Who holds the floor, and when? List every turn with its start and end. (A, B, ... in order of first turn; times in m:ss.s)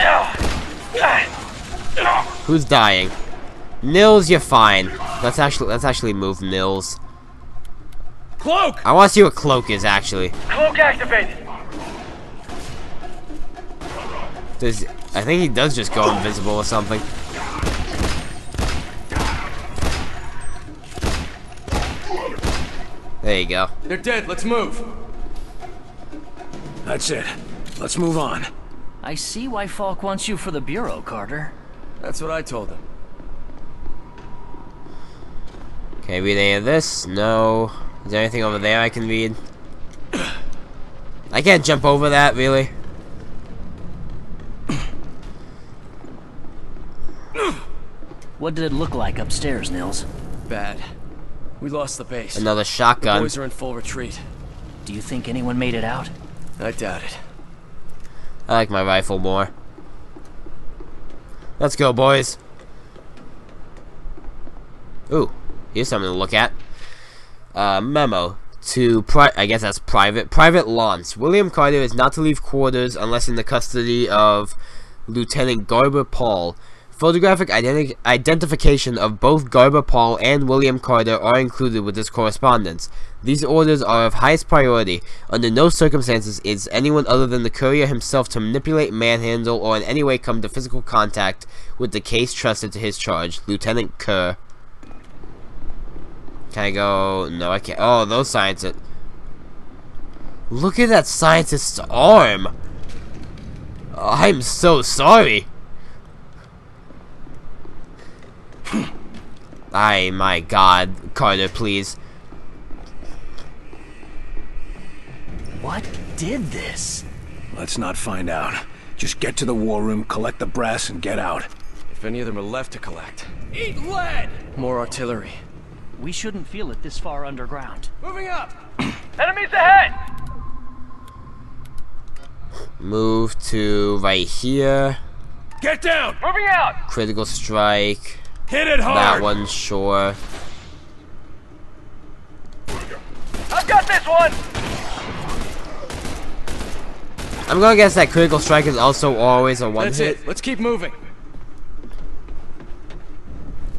0:01.0-0:01.2 A
0:02.4-0:03.1 B
0:03.8-0:07.0 B
0:08.4-0:08.8 C
0:08.8-0:10.3 B
0:10.5-0:11.4 A
0:14.6-0:17.1 B
0:23.2-0:23.7 B
0:23.9-0:24.9 D
0:26.8-0:28.5 C
0:29.0-0:31.5 E
0:32.0-0:32.8 D
0:36.0-0:39.4 B
0:41.3-0:42.7 B
0:48.4-0:50.1 E
0:50.5-0:50.8 D
0:51.6-0:52.5 D
0:52.4-0:53.3 B
0:53.0-0:54.2 D
0:54.8-0:56.1 E
0:56.6-0:57.2 D
0:58.5-0:59.5 B
1:01.6-1:02.4 B
1:05.1-1:06.6 B
1:07.5-1:34.4 B
1:36.5-1:38.8 B
1:40.5-1:42.5 B
1:43.9-1:45.5 B
1:49.7-1:52.0 B
1:55.6-1:57.0 E
1:57.5-2:01.5 C
2:01.9-2:05.4 D
2:06.0-2:07.9 E
2:08.0-2:08.5 D
2:09.2-2:10.0 A
2:12.8-2:15.0 B
2:15.6-2:16.2 C
2:16.2-2:16.8 A
2:16.9-2:18.2 B
2:18.5-2:19.3 C
2:18.9-2:20.2 B
2:23.5-2:24.4 A
2:27.5-2:30.2 B
2:29.8-2:31.0 D